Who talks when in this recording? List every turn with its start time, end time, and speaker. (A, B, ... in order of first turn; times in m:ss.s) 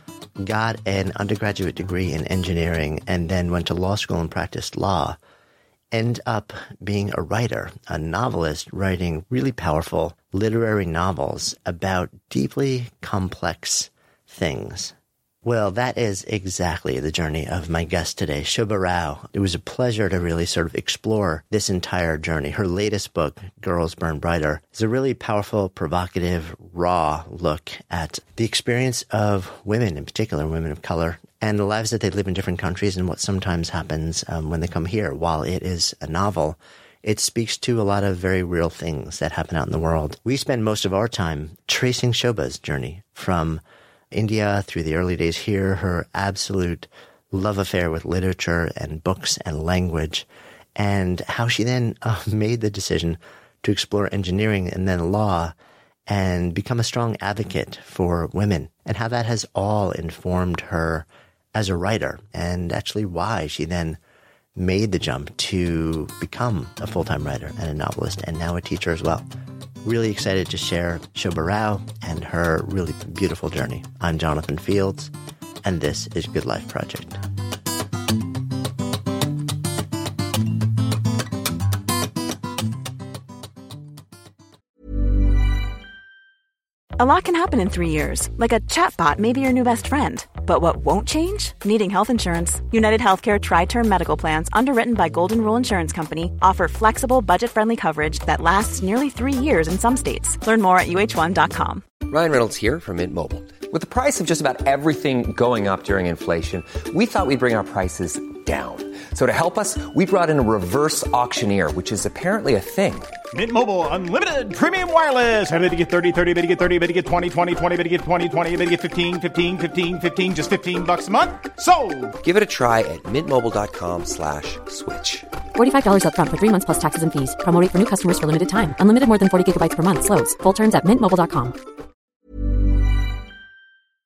0:00.4-0:05.2 A
0:05.9-0:55.5 A
0:56.1-1:04.0 A
1:04.6-1:09.3 A
1:09.8-1:17.2 A
1:27.0-1:41.8 B
1:42.0-1:53.2 C
1:53.3-2:02.2 D
2:02.2-2:05.3 C
2:05.5-2:11.6 E